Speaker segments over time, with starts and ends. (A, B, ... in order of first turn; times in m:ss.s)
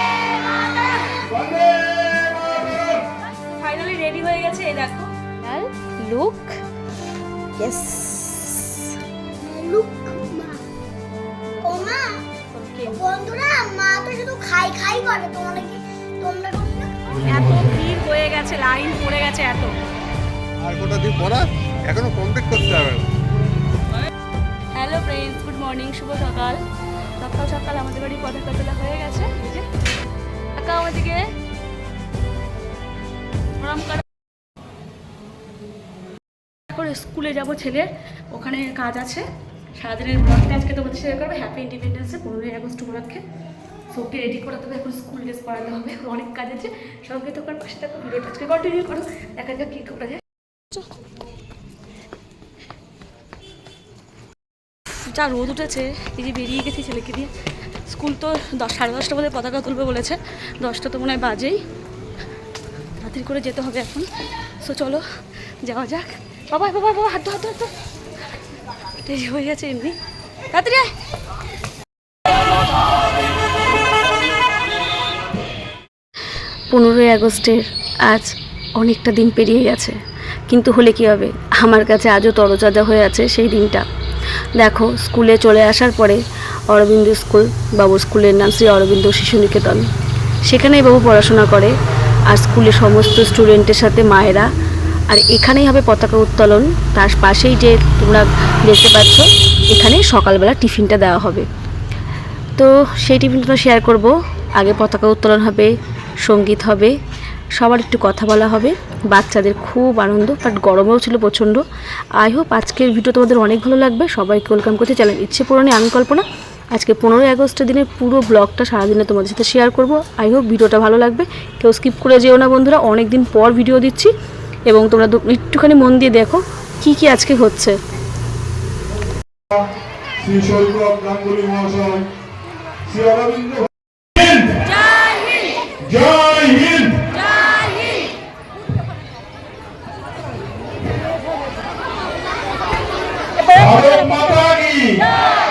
0:00.5-0:00.9 A
0:01.3-0:03.0 B
0:03.6-0:06.5 A
0:07.6-0:08.7 A
0:09.4-0:10.6 C
0:11.6-0:12.2 C
0:12.5-0:13.0 A
0:12.8-0:17.1 C
0:17.1-0:17.7 B
0:17.3-0:19.7 A
0:20.6-0:23.0 B
0:24.7-0:26.6 A
0:27.2-0:29.6 A
0:30.6-0:31.2 A
0:33.6-0:34.0 A
0:36.7-0:43.2 A
0:43.9-0:50.2 A
0:54.9-0:57.3 A
0:57.9-1:01.6 A
1:03.0-1:04.1 A
1:04.6-1:05.0 A
1:05.6-1:07.7 A
1:09.0-1:10.0 A
1:10.5-1:10.9 A
1:16.7-1:20.0 A
1:20.5-1:23.8 A
1:24.6-1:29.9 A
1:30.4-1:31.7 A
1:32.3-1:34.5 A
1:35.1-1:41.5 A
1:42.6-1:45.7 A
1:46.2-1:47.0 A
1:47.5-1:51.6 A
1:52.2-2:04.1 A
2:04.7-2:07.8 A
2:10.2-2:12.1 B
2:12.8-2:13.7 B
2:14.2-2:14.6 B
2:14.9-2:15.5 A
2:15.8-2:17.1 B
2:23.6-2:25.0 B